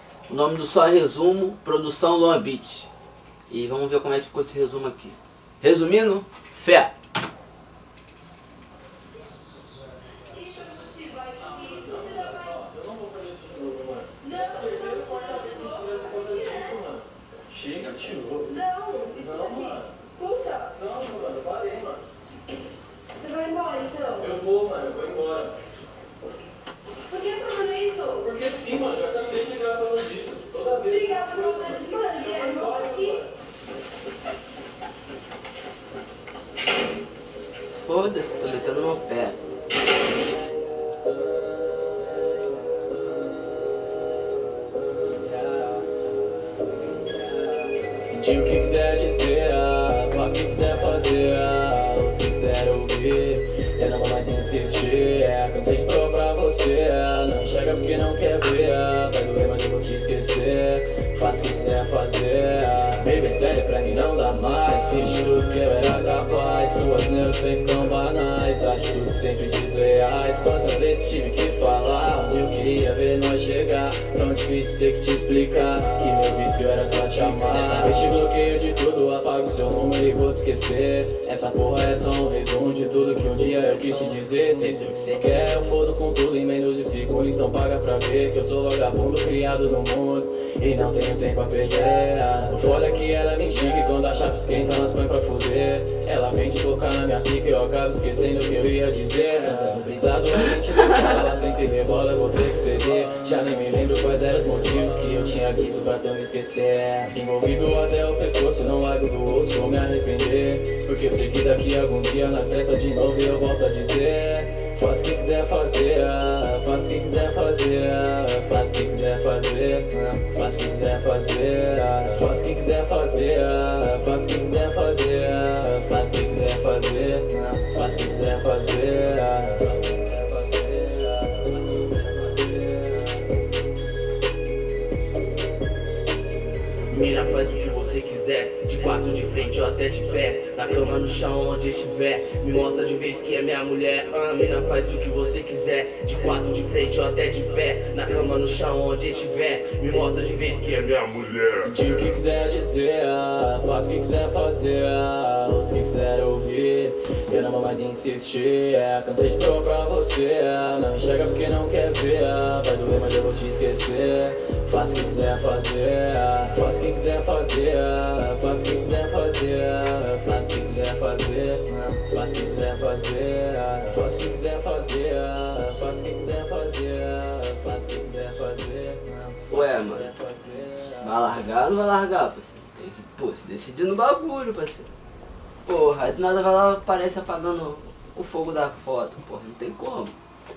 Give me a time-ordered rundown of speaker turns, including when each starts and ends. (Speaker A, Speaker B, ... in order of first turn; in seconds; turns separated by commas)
Speaker A: 0.3-2.9, Speaker A: 3.5-6.9, Speaker B: 10.4-11.7, Speaker C: 11.6-18.6, Speaker B: 14.2-16.0, Speaker B: 18.6-20.8, Speaker C: 19.1-19.9, Speaker C: 20.8-22.0, Speaker B: 23.2-24.2, Speaker C: 24.1-25.6, Speaker B: 27.1-28.2, Speaker C: 28.2-33.3, Speaker B: 31.0-33.1, Speaker A: 37.7-39.4, Speaker C: 48.1-133.0, Speaker D: 136.9-151.6, Speaker C: 151.6-181.2, Speaker A: 179.5-180.1, Speaker A: 181.0-184.9, Speaker A: 185.7-190.1